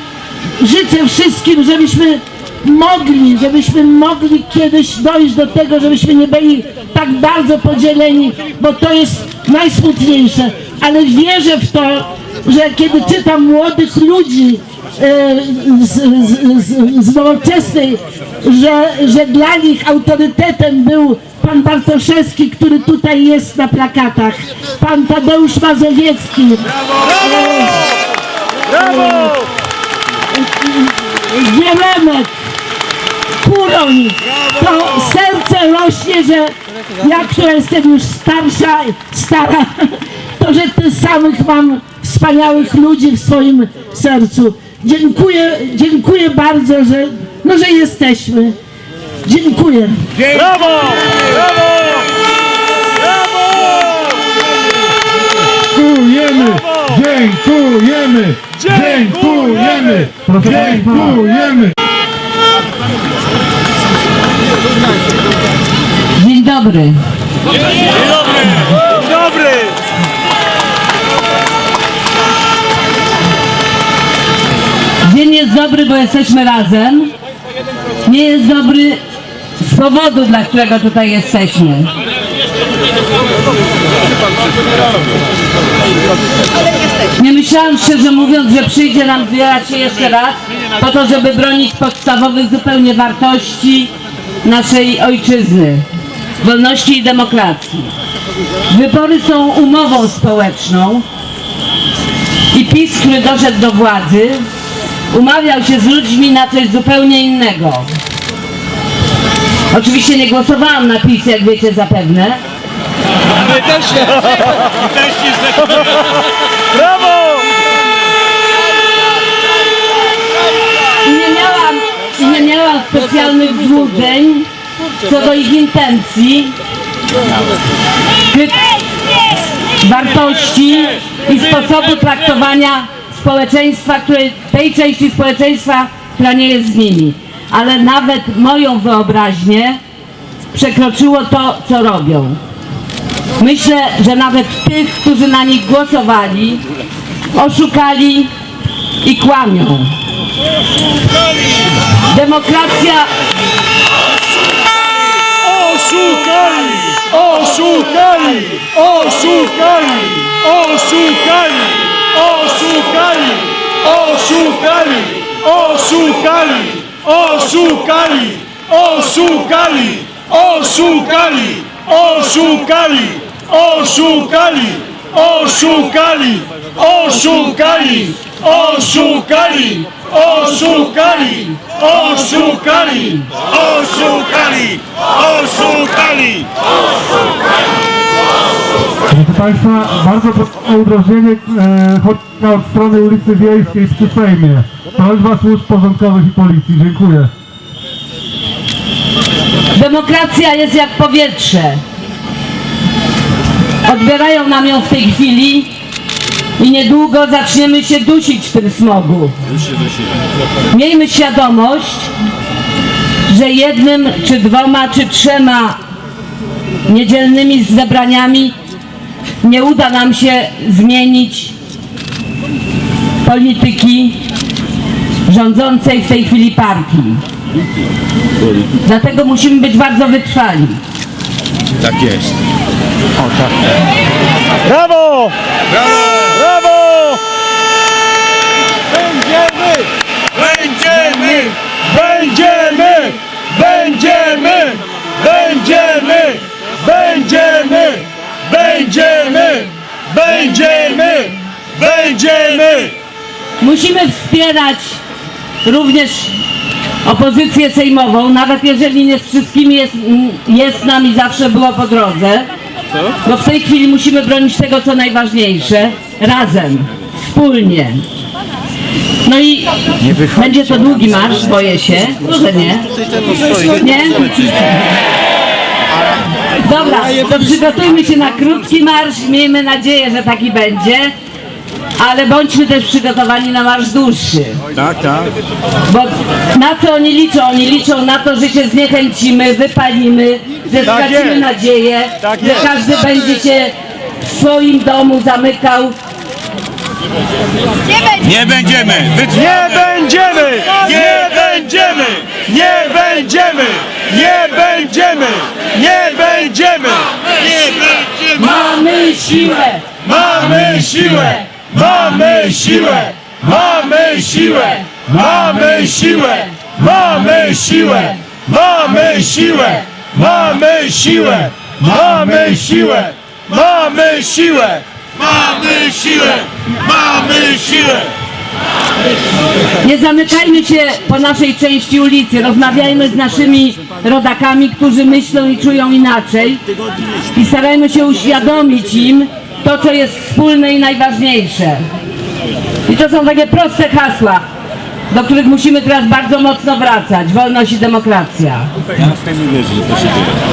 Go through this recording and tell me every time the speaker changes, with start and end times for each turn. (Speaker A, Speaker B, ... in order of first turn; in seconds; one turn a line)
Speaker A: 0.6-26.6
Speaker A: 27.2-27.7
Speaker B: 27.5-27.8
Speaker C: 28.7-29.4
Speaker B: 28.8-29.1
Speaker A: 30.4-32.3
Speaker A: 33.4-48.5
Speaker A: 49.2-49.9
Speaker C: 50.2-52.0
Speaker C: 53.3-54.2
Speaker D: 55.7-61.7
Speaker C: 58.9-59.7
Speaker E: 60.2-61.2
Speaker B: 66.2-67.0
Speaker C: 69.0-69.6
Speaker B: 75.0-77.1
Speaker B: 78.0-79.0
Speaker B: 79.6-81.9
Speaker B: 87.2-93.9
Speaker B: 94.4-95.8
Speaker B: 96.4-97.9
Speaker B: 98.7-101.0
Speaker B: 102.5-104.4
Speaker B: 105.1-107.9
Speaker B: 109.7-112.4
Speaker C: 116.8-117.4
Speaker B: 121.0-124.5
Speaker B: 125.0-126.5
Speaker B: 128.3-128.6
Speaker B: 129.8-139.8
Speaker B: 140.5-142.4
Speaker B: 143.4-146.6
Speaker B: 147.3-148.3
Speaker B: 149.0-149.9
Speaker B: 152.1-153.1
Speaker C: 155.5-186.4
Speaker E: 189.1-197.3
Speaker B: 199.7-201.8
Speaker B: 203.8-205.7
Speaker B: 206.6-209.3
Speaker B: 210.7-212.1
Speaker B: 213.3-215.8
Speaker B: 216.8-218.5
Speaker B: 219.4-221.5
Speaker B: 223.2-224.2
Speaker B: 225.2-227.2
Speaker B: 228.8-230.8
Speaker C: 234.7-235.3
Speaker C: 236.2-237.2
Speaker C: 239.3-239.7
Speaker C: 240.3-252.9
Speaker B: 253.6-255.0
Speaker B: 255.6-256.3
Speaker B: 257.0-262.5
Speaker B: 263.2-268.0
Speaker B: 269.2-269.7
Speaker B: 270.2-272.9
Speaker B: 273.8-274.5
Speaker B: 276.6-281.1
Speaker B: 282.0-284.6
Speaker B: 285.9-295.9
Speaker C: 298.3-308.1
Speaker B: 308.2-311.5
Speaker C: 310.2-324.8
Speaker B: 313.4-316.4
Speaker B: 317.5-317.9
Speaker C: 325.4-328.1
Speaker B: 329.8-336.6
Speaker B: 337.3-341.8
Speaker B: 342.9-344.4
Speaker B: 345.1-348.7